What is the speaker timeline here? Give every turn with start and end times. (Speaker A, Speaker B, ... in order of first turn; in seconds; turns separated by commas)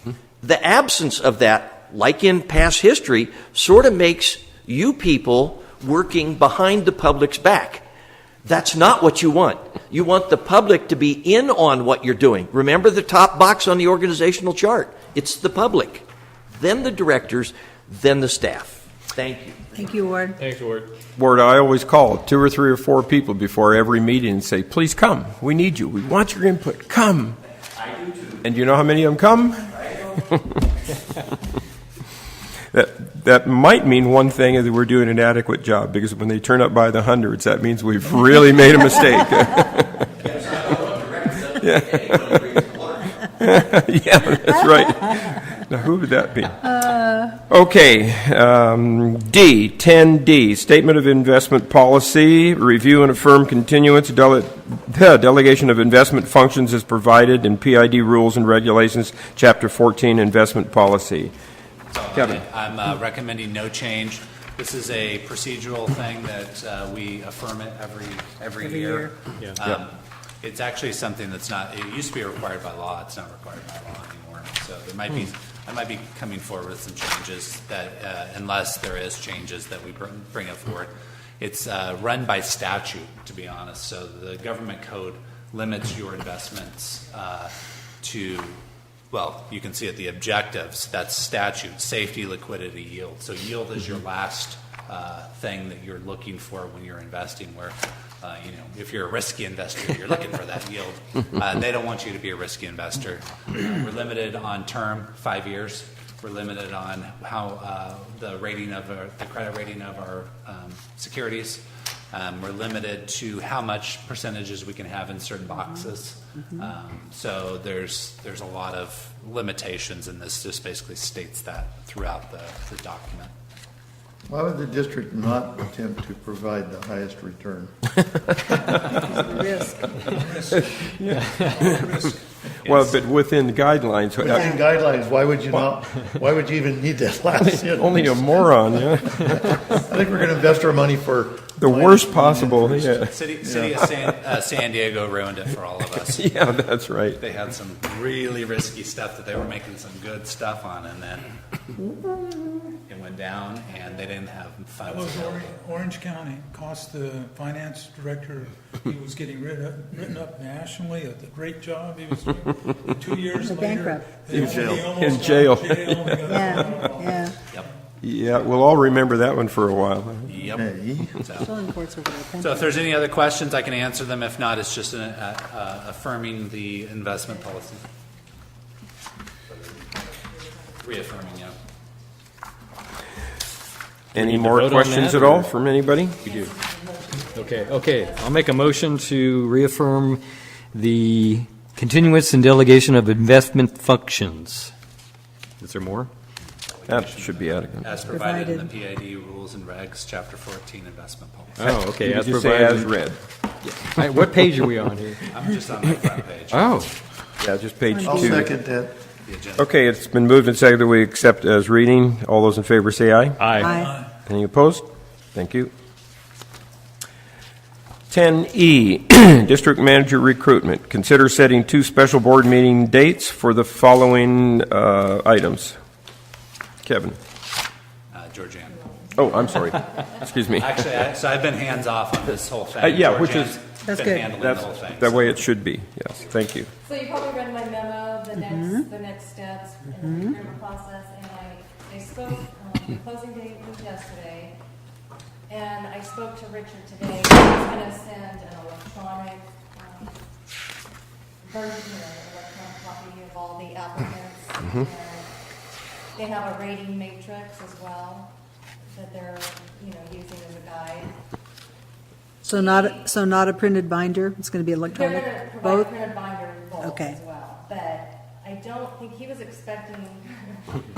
Speaker A: 0.4-7.8, Speaker A: 8.4-19.9, Speaker B: 19.7-20.4, Speaker C: 20.5-20.9, Speaker D: 21.1-27.4, Speaker D: 28.4-30.6, Speaker D: 32.7-40.0, Speaker A: 40.2-42.9, Speaker D: 41.6-42.6, Speaker D: 43.4-61.3, Speaker E: 61.9-88.6, Speaker D: 62.1-62.4, Speaker B: 68.6-69.1, Speaker E: 89.1-123.3, Speaker B: 115.5-115.9, Speaker F: 124.3-127.7, Speaker B: 129.0-130.0, Speaker G: 129.8-133.0, Speaker D: 131.0-131.9, Speaker D: 132.6-134.5, Speaker F: 134.2-138.4, Speaker B: 134.3-134.6, Speaker D: 137.4-139.6, Speaker F: 139.1-143.8, Speaker D: 141.6-143.1, Speaker E: 143.0-146.3, Speaker D: 146.0-147.2, Speaker E: 147.2-151.3, Speaker E: 152.9-155.5, Speaker H: 153.7-154.1, Speaker G: 154.8-167.7, Speaker B: 163.3-164.7, Speaker D: 164.3-166.6, Speaker F: 164.3-164.8, Speaker B: 166.3-167.3, Speaker D: 168.0-170.5, Speaker E: 170.2-171.5, Speaker F: 170.5-171.2, Speaker B: 171.3-172.8, Speaker E: 172.4-177.8, Speaker H: 177.2-177.9, Speaker H: 179.9-181.3, Speaker E: 180.8-181.6, Speaker D: 184.1-186.2, Speaker C: 184.2-185.4, Speaker H: 186.2-189.1, Speaker C: 187.5-190.2, Speaker C: 190.7-194.7, Speaker C: 195.6-196.1, Speaker E: 196.7-201.7, Speaker D: 196.9-197.8, Speaker B: 198.1-198.7, Speaker C: 201.6-202.9, Speaker D: 201.7-203.2, Speaker C: 203.6-205.2, Speaker E: 205.3-206.8, Speaker C: 206.5-206.9, Speaker D: 207.4-208.5, Speaker B: 207.9-208.5, Speaker F: 208.0-208.9, Speaker E: 209.2-209.7, Speaker D: 209.6-213.6, Speaker B: 213.5-213.9, Speaker G: 213.5-214.1, Speaker D: 214.2-215.7, Speaker D: 218.1-225.8, Speaker D: 226.8-227.2, Speaker E: 228.1-228.8, Speaker H: 228.7-230.5, Speaker D: 229.2-230.8, Speaker E: 230.6-235.2, Speaker D: 232.8-233.6, Speaker B: 233.8-234.3, Speaker D: 234.3-236.7, Speaker H: 236.8-244.6, Speaker B: 238.3-238.8, Speaker B: 240.0-240.3, Speaker H: 245.5-250.2, Speaker H: 251.4-255.3, Speaker H: 256.1-258.3, Speaker H: 258.9-261.1, Speaker B: 262.4-266.1, Speaker H: 262.5-263.1, Speaker H: 264.9-270.7, Speaker B: 266.8-267.2